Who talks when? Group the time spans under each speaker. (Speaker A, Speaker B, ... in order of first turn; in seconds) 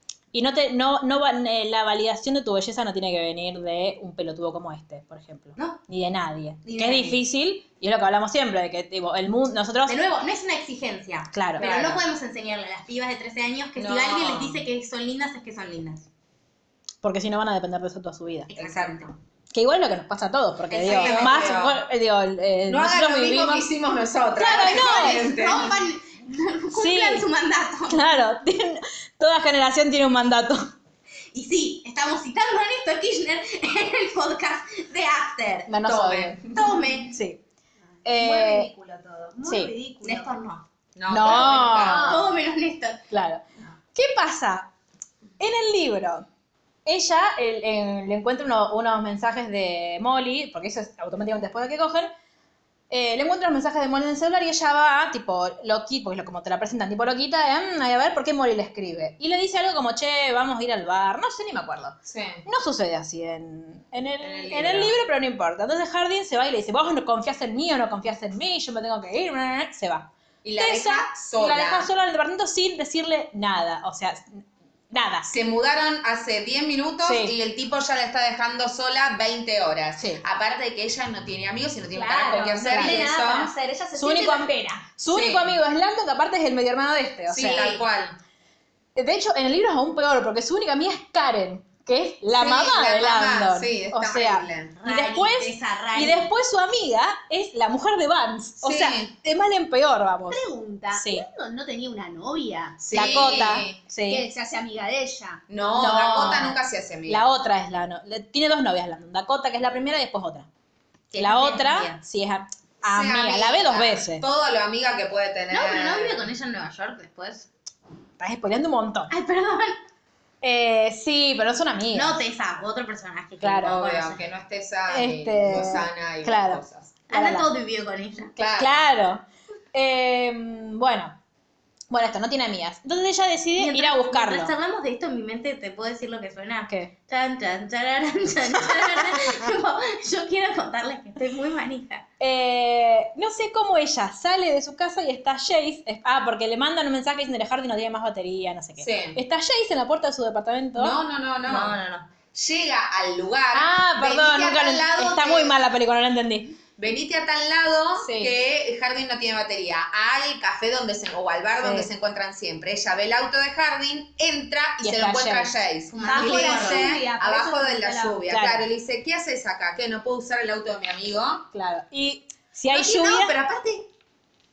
Speaker A: 0.3-10.0, 11.3-11.7, 17.0-18.5, 19.5-23.7, 24.4-25.3, 26.7-27.2, 27.9-30.7, 35.7-36.5, 37.1-37.4, 38.0-38.7, 39.4-39.7, 41.1-42.2, 43.1-43.4, 44.0-44.7, 45.4-46.3, 46.9-52.1, 52.9-75.3, 77.0-77.3, 80.0-80.2, 82.3-83.1, 84.0-87.8, 89.0-101.3, 102.9-104.3, 105.7-110.5, 111.2-114.2, 118.2-119.1, 120.4-122.2, 123.4-123.8, 124.9-127.5, 128.5-131.2, 131.9-134.5, 138.6-139.4, 142.2-151.0, 153.5-156.6, 158.0-158.3, 161.6-161.9, 164.8-165.5, 168.3-168.7, 171.5-173.4
Speaker B: 6.6-7.2, 9.9-16.1, 18.5-19.2, 20.7-21.6, 24.4-28.1, 31.3-35.8, 36.5-37.1, 40.0-43.0, 94.8-96.3, 111.1-112.0, 115.5-117.5, 119.1-119.8, 121.9-124.3, 127.1-128.3, 133.6-142.1, 151.4-152.1, 165.9-166.9
Speaker C: 11.6-12.1, 13.8-14.6, 18.6-19.1, 20.8-21.8, 22.7-25.8, 35.9-36.8, 41.0-42.1, 62.1-62.4, 64.2-65.0, 70.4-71.9, 75.3-83.5, 85.1-85.6, 87.3-88.2, 92.3-94.8, 98.6-99.1, 102.8-103.8, 105.5-107.2, 112.8-116.3, 123.6-127.0, 128.4-128.8, 148.8-149.2, 150.8-151.8, 152.3-155.6, 156.8-171.5, 172.7-173.9
Speaker D: 38.0-40.4, 41.7-42.3, 81.9-84.9, 100.3-103.2, 104.1-105.4, 166.0-168.2